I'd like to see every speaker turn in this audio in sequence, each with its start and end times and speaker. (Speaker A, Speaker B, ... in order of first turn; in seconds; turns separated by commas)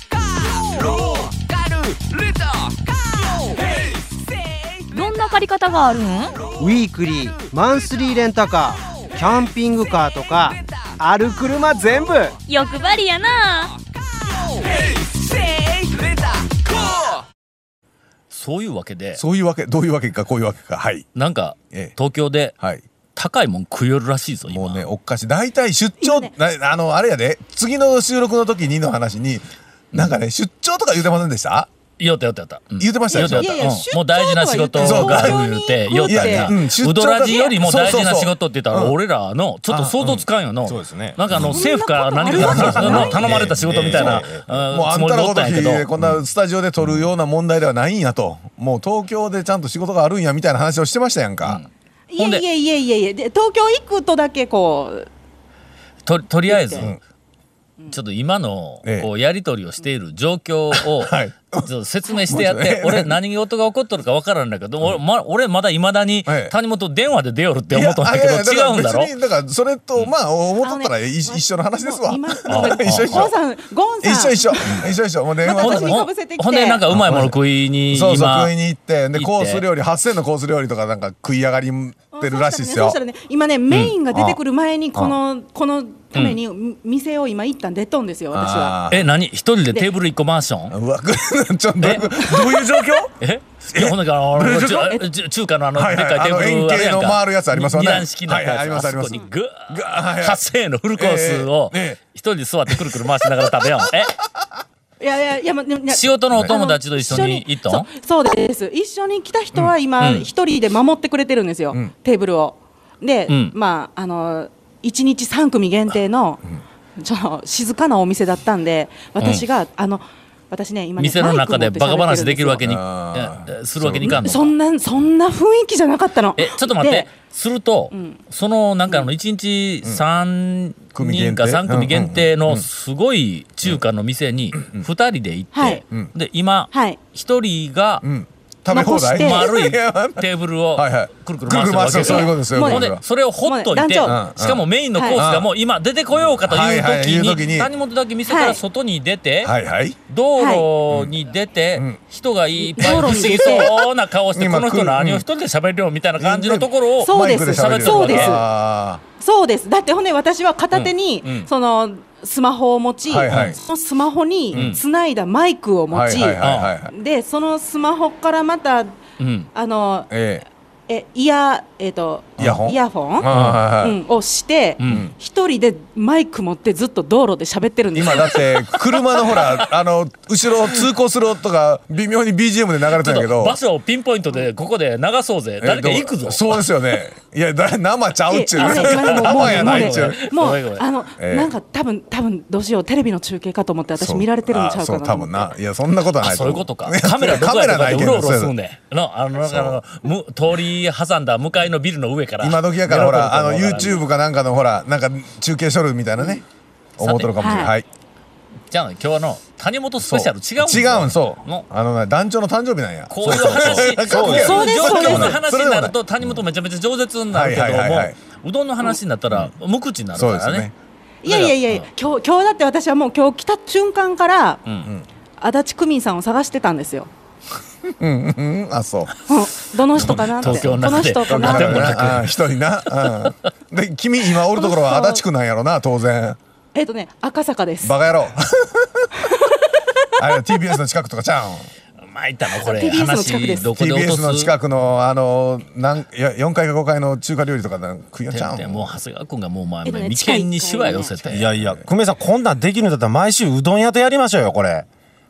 Speaker A: 4.9-6.5, Speaker B: 6.6-12.4, Speaker A: 12.5-13.7, Speaker C: 18.3-19.2, Speaker D: 19.2-21.1, Speaker C: 21.1-22.6, Speaker D: 22.6-22.8, Speaker C: 23.1-24.9, Speaker D: 24.4-31.7, Speaker E: 26.0-26.3, Speaker C: 32.0-45.9, Speaker D: 32.8-33.8, Speaker E: 33.1-36.5, Speaker D: 34.8-35.4, Speaker D: 36.1-39.0, Speaker D: 39.7-40.2, Speaker F: 40.6-41.2, Speaker D: 41.3-41.6, Speaker E: 41.3-43.2, Speaker D: 42.3-51.6, Speaker F: 43.2-44.4, Speaker C: 51.4-52.4, Speaker E: 52.1-55.1, Speaker C: 56.0-57.0, Speaker E: 56.5-56.9, Speaker C: 57.9-69.1, Speaker D: 60.7-61.7, Speaker D: 62.3-63.2, Speaker D: 66.2-66.5, Speaker D: 67.7-73.3, Speaker E: 70.6-74.8, Speaker C: 72.5-73.3, Speaker D: 74.0-76.0, Speaker E: 75.4-76.8, Speaker C: 75.6-78.5, Speaker D: 76.9-83.0, Speaker C: 79.1-79.7, Speaker E: 82.1-88.8, Speaker C: 83.7-84.0, Speaker D: 84.1-84.4, Speaker C: 86.1-86.4, Speaker D: 88.3-89.1, Speaker C: 88.9-90.8, Speaker D: 90.7-93.1, Speaker C: 91.8-92.4, Speaker C: 93.2-104.2, Speaker D: 93.7-95.0, Speaker D: 95.8-100.4, Speaker D: 101.0-102.0, Speaker D: 102.7-104.6, Speaker E: 105.0-116.5, Speaker C: 105.9-107.9, Speaker C: 110.0-110.3, Speaker C: 113.3-113.5, Speaker E: 117.0-122.6, Speaker C: 121.0-124.5, Speaker D: 122.6-124.2, Speaker E: 124.0-127.1, Speaker C: 126.4-138.1, Speaker E: 127.9-128.2, Speaker D: 130.9-132.7, Speaker D: 134.5-134.9, Speaker E: 135.6-135.8, Speaker E: 136.7-137.0, Speaker D: 138.0-143.0, Speaker E: 138.7-139.6, Speaker C: 139.2-149.5, Speaker E: 141.8-144.2, Speaker D: 144.0-145.5, Speaker E: 144.9-145.2, Speaker D: 146.4-147.7, Speaker E: 148.3-148.6, Speaker D: 149.4-150.0, Speaker C: 150.1-158.4, Speaker E: 150.4-150.7, Speaker E: 152.7-153.7, Speaker D: 152.8-155.3, Speaker D: 156.2-159.0, Speaker E: 157.0-158.5, Speaker E: 159.2-168.9, Speaker C: 160.7-161.5, Speaker D: 163.1-163.6, Speaker C: 163.3-163.6, Speaker C: 164.5-164.8, Speaker D: 165.9-166.9, Speaker C: 166.4-166.8, Speaker C: 169.2-169.5, Speaker E: 169.5-170.1, Speaker D: 170.1-170.5, Speaker E: 170.9-178.8, Speaker D: 172.4-174.0, Speaker C: 173.3-173.6, Speaker C: 174.8-175.1, Speaker D: 174.9-175.1, Speaker D: 177.9-183.6, Speaker C: 183.0-186.9, Speaker D: 185.6-190.3, Speaker E: 188.3-195.5, Speaker C: 188.6-190.9, Speaker D: 191.2-191.5, Speaker D: 194.0-198.5, Speaker C: 196.2-204.0, Speaker D: 199.4-199.8, Speaker D: 202.4-206.4, Speaker D: 207.0-207.8, Speaker C: 207.0-207.7, Speaker E: 207.4-207.7, Speaker C: 208.7-211.7, Speaker D: 210.0-216.4, Speaker C: 213.1-220.7, Speaker F: 213.2-214.5, Speaker E: 214.1-215.4, Speaker D: 217.3-218.2, Speaker D: 220.2-220.7, Speaker E: 221.2-224.6, Speaker C: 221.3-221.9, Speaker E: 225.4-227.1, Speaker D: 227.9-229.1, Speaker E: 229.3-232.1, Speaker D: 230.0-236.4, Speaker C: 230.0-232.3, Speaker E: 234.5-235.2, Speaker E: 236.7-238.0, Speaker D: 237.8-239.3, Speaker E: 239.2-240.6, Speaker D: 240.2-241.7, Speaker C: 242.0-244.5, Speaker E: 242.5-243.7, Speaker D: 243.7-249.0, Speaker C: 248.3-251.5, Speaker E: 249.8-251.2, Speaker F: 251.3-254.9, Speaker D: 251.5-251.9